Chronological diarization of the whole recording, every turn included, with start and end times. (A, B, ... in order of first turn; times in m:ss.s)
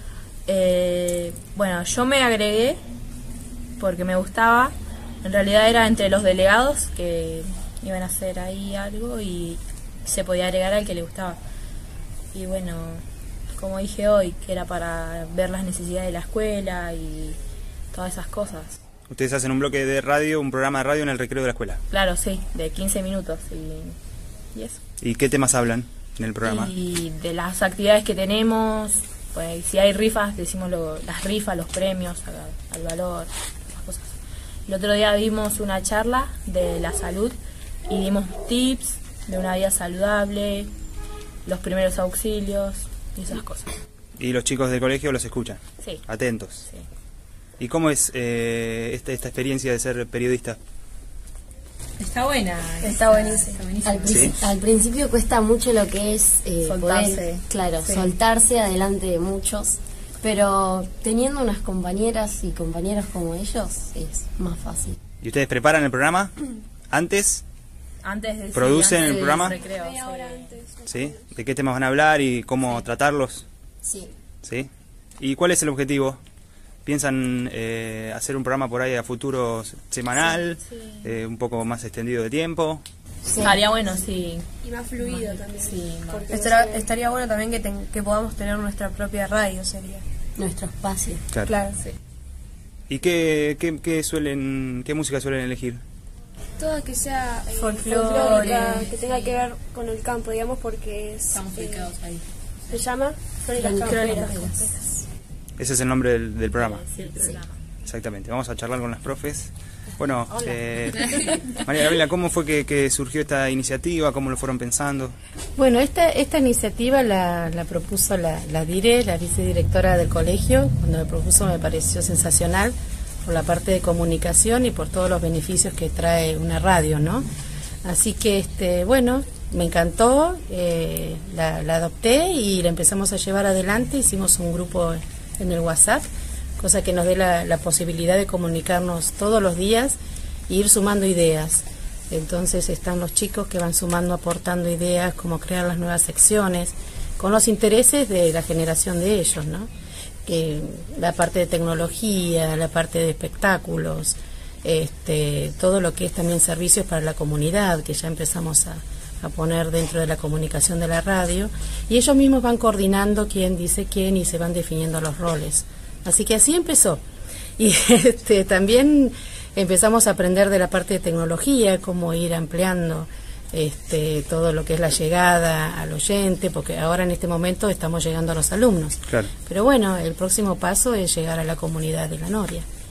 0:00.4-0:02.8 A
0:03.8-0:11.4 A
0:12.3-0:17.4 A
0:17.9-0:18.8 A
0:19.1-0:21.8 B
0:21.9-0:24.0 A
0:24.5-0:24.8 A
0:25.0-0:26.7 B
0:26.4-0:40.7 A
0:41.4-0:43.7 A
0:44.2-0:46.7 B
0:47.6-0:50.6 B
0:52.0-0:54.4 A
0:52.8-0:53.6 C
0:53.8-1:05.0 D
0:54.1-0:54.4 B
0:56.6-0:58.1 A
1:05.2-1:06.3 B
1:06.9-1:07.4 B
1:08.0-1:10.6 A
1:08.5-1:09.6 B
1:09.1-1:11.2 C
1:10.9-1:13.4 B
1:14.4-1:14.7 B
1:15.2-1:16.2 B
1:16.8-1:22.8 B
1:20.2-1:21.0 A
1:23.2-1:23.6 D
1:23.4-1:24.4 A
1:24.6-1:26.9 C
1:25.0-1:26.3 A
1:26.3-1:30.0 E
1:30.4-1:31.2 D
1:32.9-1:35.8 B
1:36.6-1:41.9 C
1:37.9-1:39.5 A
1:41.3-1:42.8 A
1:42.7-1:44.9 C
1:43.6-1:44.6 D
1:45.6-1:46.9 B
1:46.6-1:47.6 A
1:47.8-1:55.2 B
1:55.6-2:07.2 F
2:07.8-2:29.7 F
2:30.2-2:47.0 F
2:47.6-3:02.6 F